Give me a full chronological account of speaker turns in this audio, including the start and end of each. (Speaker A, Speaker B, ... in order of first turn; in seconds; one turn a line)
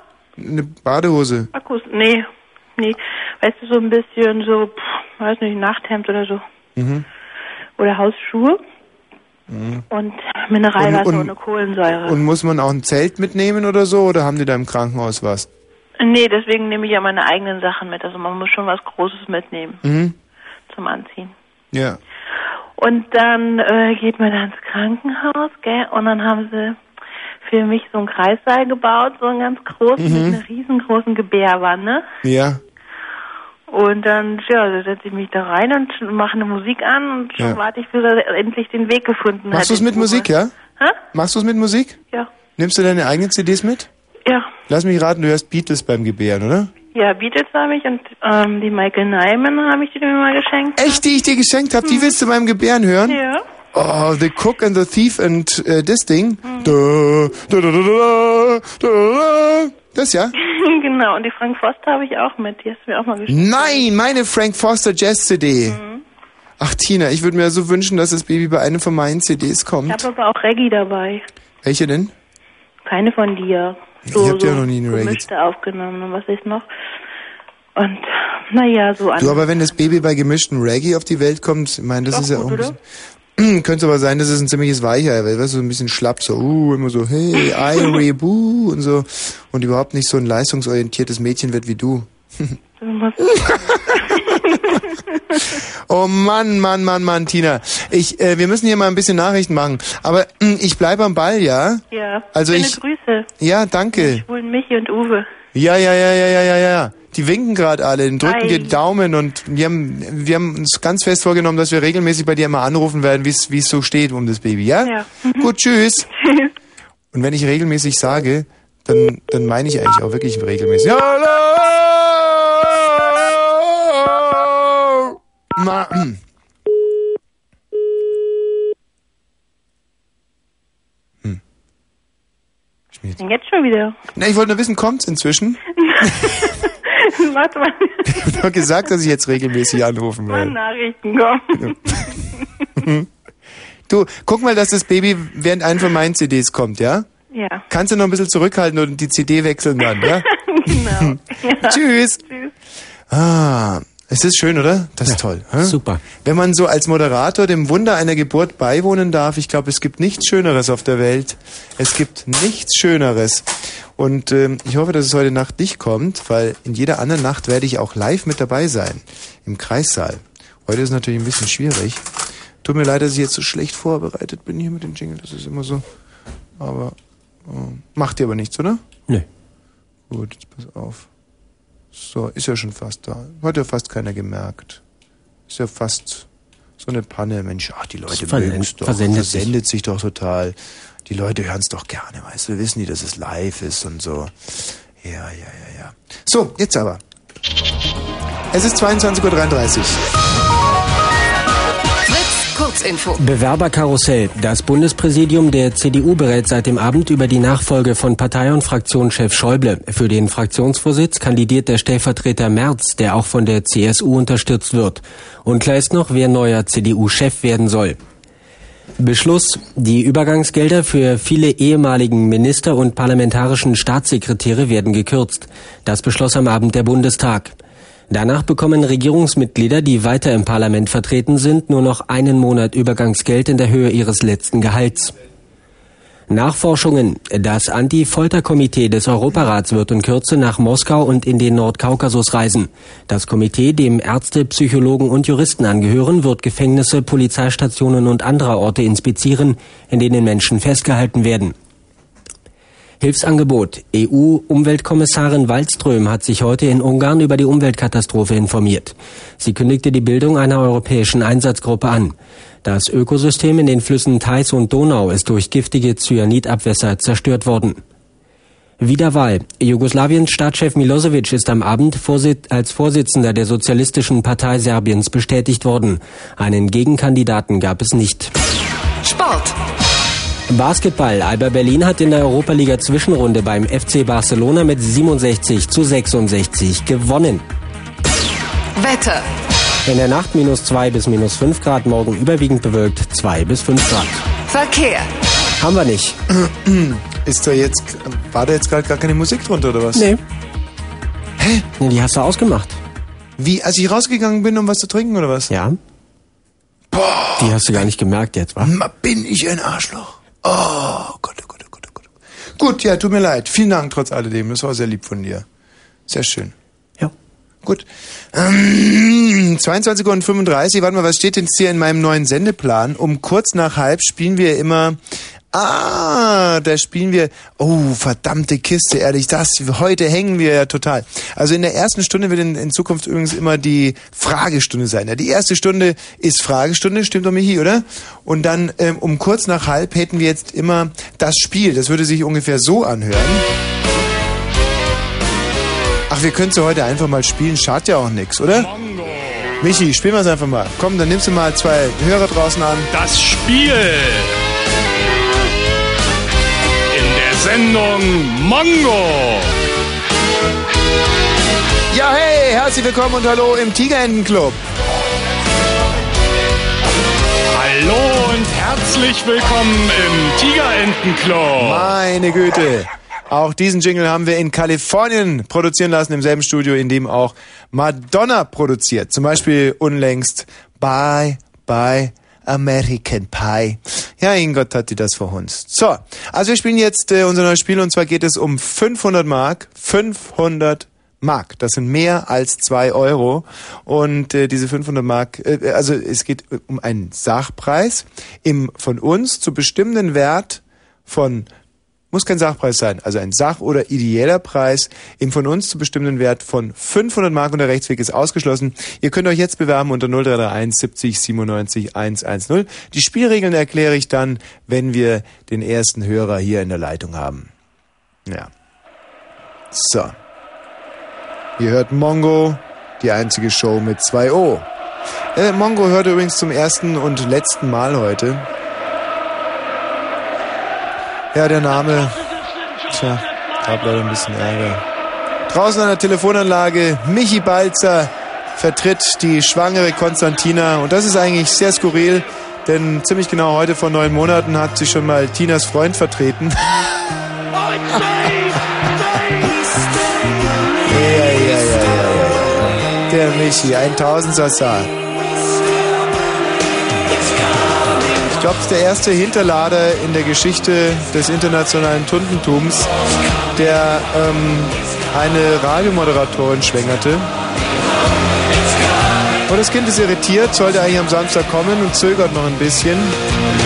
Speaker A: 0.4-1.5
Speaker B: 1.5-6.4
Speaker A: 6.8-7.0
Speaker B: 7.8-8.6
Speaker A: 9.5-9.8
Speaker B: 9.9-12.2
Speaker A: 10.8-11.3
Speaker A: 12.0-15.5
Speaker B: 16.0-19.8
Speaker A: 19.8-20.1
Speaker B: 20.7-21.3
Speaker A: 21.7-22.0
Speaker B: 22.8-26.8
Speaker B: 27.4-32.1
Speaker A: 30.0-30.4
Speaker A: 32.2-32.6
Speaker B: 33.7-41.0
Speaker A: 39.5-40.5
Speaker A: 41.1-42.0
Speaker A: 42.6-43.9
Speaker B: 44.2-44.5
Speaker A: 44.7-46.7
Speaker B: 46.9-51.0
Speaker A: 50.8-53.2
Speaker B: 51.8-52.1
Speaker B: 53.0-53.4
Speaker A: 53.7-60.3
Speaker B: 56.4-56.8
Speaker B: 60.4-63.9
Speaker A: 63.3-65.8
Speaker B: 65.7-66.0
Speaker A: 66.6-70.0
Speaker B: 69.9-71.2
Speaker A: 71.6-72.1
Speaker B: 72.8-76.7
Speaker A: 74.1-75.3
Speaker B: 77.8-79.8
Speaker A: 79.2-82.8
Speaker B: 82.1-82.8
Speaker A: 83.4-92.5
Speaker B: 87.4-88.0
Speaker B: 92.8-95.4
Speaker A: 95.9-102.8
Speaker B: 101.9-103.3
Speaker A: 103.4-104.2
Speaker B: 103.9-105.3
Speaker A: 105.5-116.1
Speaker B: 108.2-108.8
Speaker B: 114.8-115.5
Speaker A: 117.1-126.2
Speaker A: 132.9-133.2
Speaker B: 133.2-133.9
Speaker A: 134.2-135.6
Speaker B: 135.8-138.3
Speaker A: 138.1-140.6
Speaker B: 140.3-142.2
Speaker A: 141.6-142.1
Speaker A: 142.8-143.1
Speaker A: 143.9-147.1
Speaker B: 147.3-147.6
Speaker A: 147.7-152.2
Speaker B: 150.0-152.5
Speaker A: 153.1-172.0
Speaker C: 155.1-156.0
Speaker A: 172.6-175.8
Speaker A: 176.6-178.8
Speaker A: 180.1-181.1
Speaker A: 181.9-184.8
Speaker A: 185.5-186.2
Speaker A: 186.8-197.0
Speaker C: 188.1-189.5
Speaker A: 198.5-200.0
Speaker D: 202.1-203.2
Speaker C: 203.2-218.0
Speaker C: 219.0-227.5
Speaker C: 228.1-235.1
Speaker C: 236.3-251.5
Speaker C: 253.0-267.8
Speaker C: 268.8-278.3
Speaker D: 279.0-279.6
Speaker C: 280.5-287.4
Speaker D: 288.7-289.2
Speaker C: 289.9-294.2
Speaker D: 294.5-295.1
Speaker C: 295.6-296.2
Speaker A: 296.3-300.1
Speaker C: 299.9-300.2
Speaker A: 301.4-301.7
Speaker C: 301.8-302.8
Speaker A: 303.4-305.5
Speaker C: 305.5-305.8
Speaker A: 306.9-307.9
Speaker C: 307.4-308.7
Speaker A: 308.6-315.4
Speaker A: 316.1-316.5
Speaker A: 317.6-325.0
Speaker A: 325.5-343.4
Speaker A: 346.1-348.7
Speaker E: 348.5-349.5
Speaker A: 349.6-352.9
Speaker E: 352.9-354.4
Speaker E: 356.9-359.5
Speaker A: 361.9-364.6
Speaker E: 367.5-371.9
Speaker A: 371.6-401.5
Speaker A: 402.1-417.5
Speaker A: 419.7-420.1
Speaker A: 421.6-424.7
Speaker A: 425.3-428.4
Speaker A: 431.3-432.2
Speaker A: 432.9-434.8
Speaker A: 435.5-446.6
Speaker A: 447.9-448.5
Speaker A: 450.9-454.9
Speaker A: 458.3-462.9
Speaker A: 463.5-467.3
Speaker A: 469.5-473.1